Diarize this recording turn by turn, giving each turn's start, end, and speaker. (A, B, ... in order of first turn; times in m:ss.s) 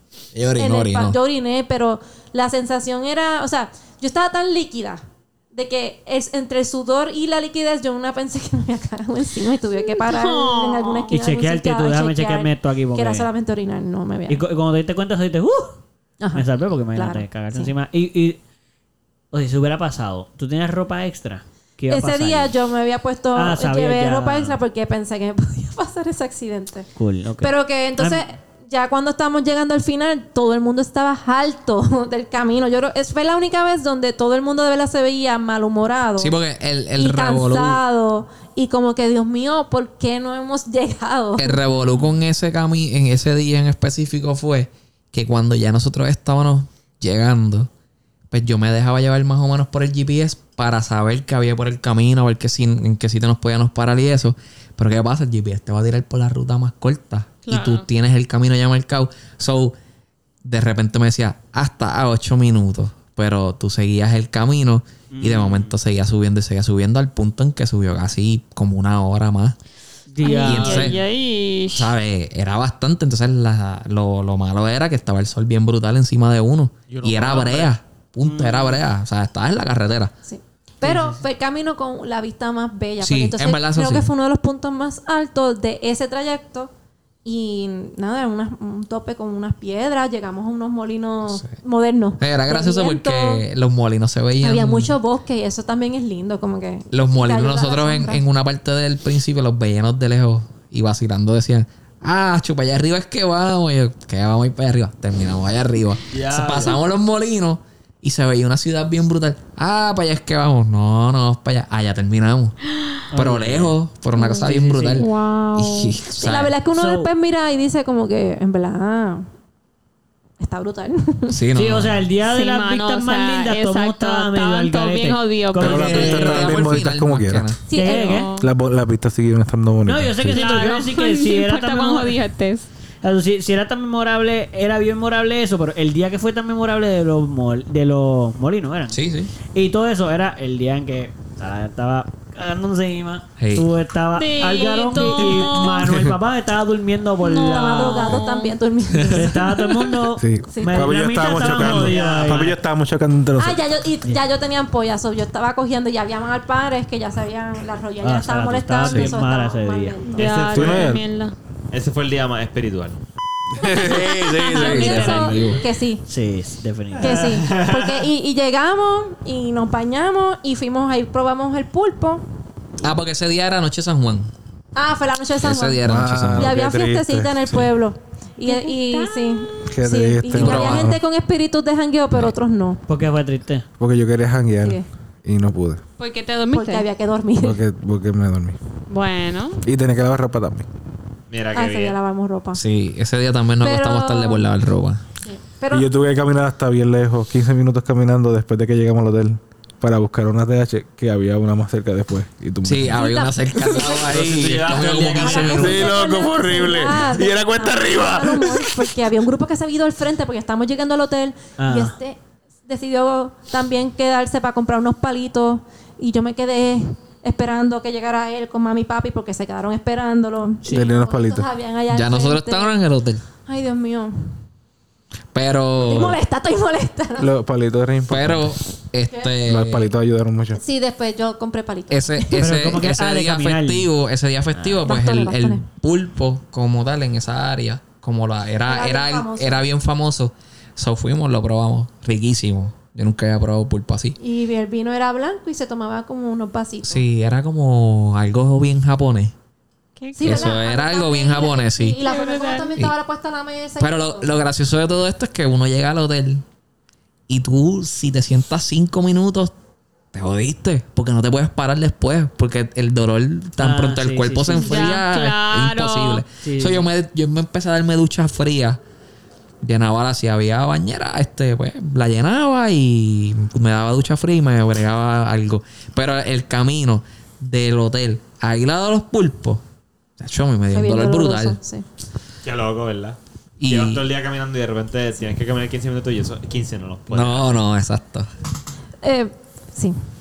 0:00.3-0:01.2 A
0:00.5-0:05.0 B
0:05.5-0:14.4 B
0:09.9-0:11.2 C
0:11.1-0:13.3 D
0:14.3-0:15.8 D
0:16.2-0:17.7 B
0:16.4-0:18.4 D
0:19.3-0:22.5 D
0:21.9-0:26.9 B
0:23.4-0:24.6 D
0:27.0-0:28.2 D
0:27.4-0:36.4 B
0:36.2-0:37.8 A
0:37.0-0:41.6 B
0:41.4-0:47.7 A
0:48.3-0:59.7 A
0:57.5-0:57.9 C
1:00.4-1:09.6 A
1:05.1-1:05.8 D
1:10.1-1:11.0 D
1:10.2-1:11.9 C
1:10.3-1:11.0 A
1:11.7-1:20.1 A
1:16.9-1:17.8 E
1:18.2-1:18.8 D
1:20.2-1:26.7 B
1:20.8-1:21.2 D
1:23.0-1:24.1 A
1:27.2-1:33.4 B
1:31.3-1:31.6 A
1:32.2-1:35.0 A
1:34.4-1:38.2 B
1:36.9-1:52.6 A
1:46.1-1:46.8 E
1:53.1-1:53.8 D
1:53.1-1:56.6 A
1:54.2-1:56.0 C
1:54.3-1:55.1 D
1:56.1-1:59.3 B
1:56.7-1:57.1 D
2:00.4-2:01.4 B
2:01.3-2:02.1 A
2:01.5-2:06.5 D
2:02.2-2:06.3 C
2:05.6-2:07.6 A
2:05.6-2:07.5 F
2:07.7-2:08.3 B
2:07.7-2:08.3 D
2:07.8-2:08.5 C
2:08.4-2:10.4 F
2:09.9-2:12.2 D
2:10.3-2:12.7 C
2:13.0-2:19.0 D
2:18.9-2:19.3 A
2:19.5-2:28.2 D
2:23.4-2:23.7 A
2:24.2-2:25.9 C
2:27.2-2:28.6 C
2:27.3-2:29.8 B
2:29.1-2:32.5 D
2:30.2-2:33.6 F
2:30.5-2:31.0 B
2:31.2-2:32.6 E
2:33.4-2:40.4 B
2:38.0-2:40.0 D
2:40.2-2:41.4 C
2:40.2-2:41.0 E
2:40.5-2:41.0 F
2:41.7-2:43.0 E
2:43.6-2:44.8 F
2:43.6-2:45.4 C
2:43.7-2:45.6 A
2:43.7-2:46.0 B
2:46.1-2:47.6 D
2:47.0-2:52.2 B
2:47.1-2:48.0 E
2:52.8-2:54.3 A
2:54.8-3:02.8 B
2:55.4-2:56.6 A
2:55.8-2:57.7 F
2:58.4-2:59.7 C
2:59.7-3:01.0 F
3:00.3-3:01.0 A
3:02.9-3:03.6 D
3:03.8-3:05.8 F
3:06.0-3:06.9 C
3:06.5-3:07.6 B
3:07.4-3:08.6 F
3:08.9-3:09.6 C
3:09.6-3:10.7 F
3:11.3-3:12.0 E
3:11.5-3:12.6 B
3:12.6-3:15.0 A
3:13.6-3:14.4 B
3:15.2-3:15.9 B
3:15.7-3:23.2 F
3:22.6-3:26.0 A
3:22.9-3:24.0 B
3:24.0-3:25.9 E
3:25.2-3:42.8 B
3:25.5-3:29.0 F
3:31.6-3:32.0 D
3:40.6-3:40.9 D
3:40.7-3:41.5 F
3:41.9-3:43.2 A
3:43.4-3:44.3 B
3:45.3-3:46.2 A
3:45.8-3:47.3 B
3:47.2-3:48.5 F
3:48.1-3:49.9 A
3:49.1-3:49.4 B
3:49.5-3:50.6 F
3:50.6-3:52.5 B
3:51.9-4:04.2 A
3:52.3-3:53.9 D
3:54.8-3:55.6 B
3:58.7-3:59.7 B
4:04.2-4:07.1 B
4:06.8-4:09.3 A
4:10.0-4:10.6 C
4:10.2-4:14.4 B
4:10.2-4:12.0 A
4:12.0-4:12.7 C
4:13.8-4:16.4 A
4:17.3-4:19.5 A
4:20.1-4:28.8 A
4:23.6-4:25.0 D
4:24.5-4:26.2 C
4:26.4-4:26.9 D
4:29.6-4:39.6 A
4:40.2-4:41.6 A
4:40.7-4:41.8 B
4:42.4-4:47.5 E
4:43.6-4:44.0 A
4:47.1-4:48.3 A
4:49.0-4:50.0 B